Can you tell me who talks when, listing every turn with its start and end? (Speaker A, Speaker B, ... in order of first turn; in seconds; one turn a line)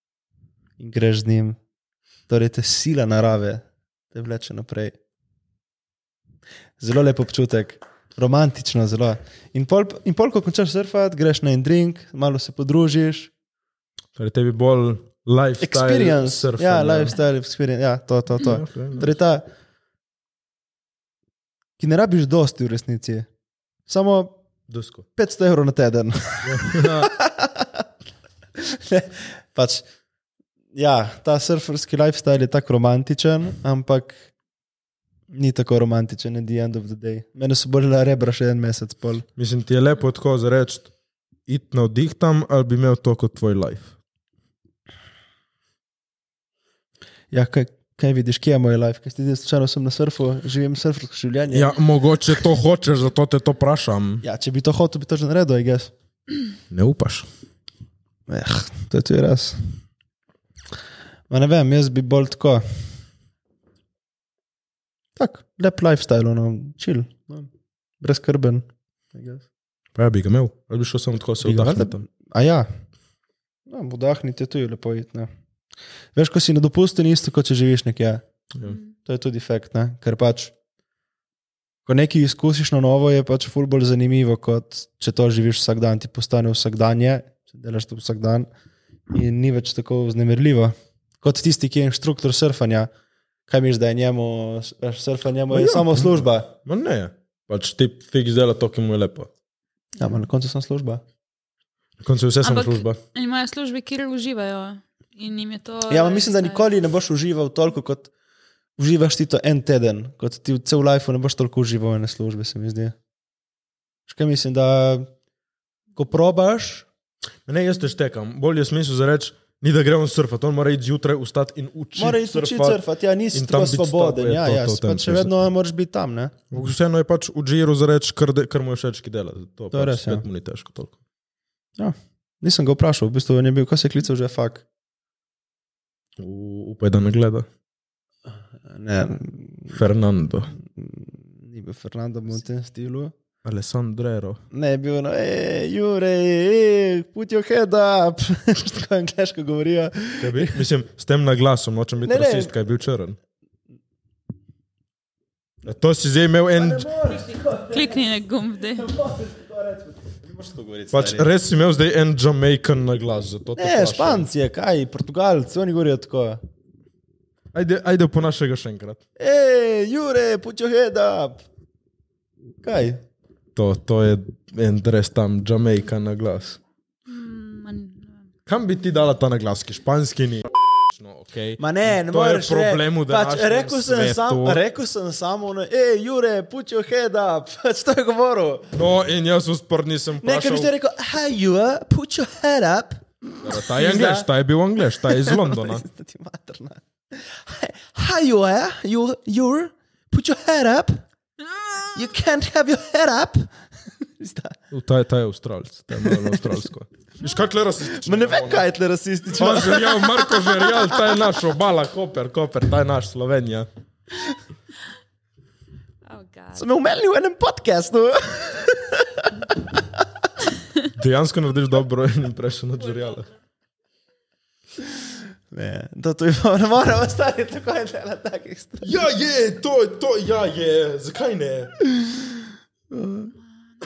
Speaker A: 0.8-1.6
Speaker A: 2.3-5.0
Speaker A: 6.8-13.3
Speaker B: 14.2-17.1
Speaker A: 15.6-19.5
Speaker B: 18.4-19.1
Speaker A: 21.8-23.3
Speaker A: 23.9-24.4
Speaker B: 24.7-25.1
Speaker A: 25.2-27.9
Speaker B: 26.4-27.1
Speaker A: 28.6-29.9
Speaker A: 30.7-34.3
Speaker A: 35.3-39.2
Speaker B: 39.4-40.9
Speaker B: 41.5-43.9
Speaker A: 47.3-51.7
Speaker B: 51.5-54.2
Speaker A: 54.2-55.9
Speaker B: 56.7-57.3
Speaker A: 58.3-59.6
Speaker A: 61.3-62.6
Speaker A: 65.2-69.5
Speaker B: 70.0-72.1
Speaker A: 71.4-72.7
Speaker A: 73.7-75.3
Speaker A: 76.1-78.2
Speaker A: 79.0-80.5
Speaker A: 81.9-88.5
Speaker A: 89.1-92.9
Speaker A: 93.5-96.5
Speaker B: 95.5-99.3
Speaker A: 100.0-101.0
Speaker B: 102.0-103.0
Speaker C: 102.4-106.7
Speaker A: 105.9-108.1
Speaker A: 108.8-113.0
Speaker A: 114.1-115.1
Speaker A: 116.0-116.9
Speaker B: 117.5-122.8
Speaker A: 122.0-126.4
Speaker B: 123.3-125.3
Speaker B: 126.5-131.0
Speaker A: 129.7-130.2
Speaker A: 131.8-134.6
Speaker B: 136.2-137.5
Speaker A: 138.6-139.8
Speaker B: 139.7-140.5
Speaker A: 140.6-143.1
Speaker B: 143.4-144.4
Speaker A: 144.5-150.6
Speaker B: 150.2-153.2
Speaker A: 152.0-152.5
Speaker B: 155.7-156.9
Speaker A: 156.6-158.0
Speaker C: 157.1-158.9
Speaker A: 158.8-161.3
Speaker B: 160.9-164.3
Speaker A: 163.6-166.4
Speaker B: 167.5-169.0
Speaker A: 169.2-171.4
Speaker A: 172.6-173.0
Speaker B: 173.6-176.6
Speaker C: 177.1-178.2
Speaker B: 178.5-184.6
Speaker A: 181.6-188.7
Speaker B: 188.7-190.7
Speaker A: 190.2-194.3
Speaker B: 193.4-195.8
Speaker A: 195.0-201.0
Speaker A: 201.9-204.6
Speaker B: 204.7-208.7
Speaker A: 206.0-206.6
Speaker A: 208.0-211.1
Speaker B: 209.3-213.7
Speaker C: 216.0-216.7
Speaker A: 216.6-219.8
Speaker B: 220.9-223.3
Speaker A: 225.0-229.0
Speaker B: 228.8-231.8
Speaker A: 231.9-233.3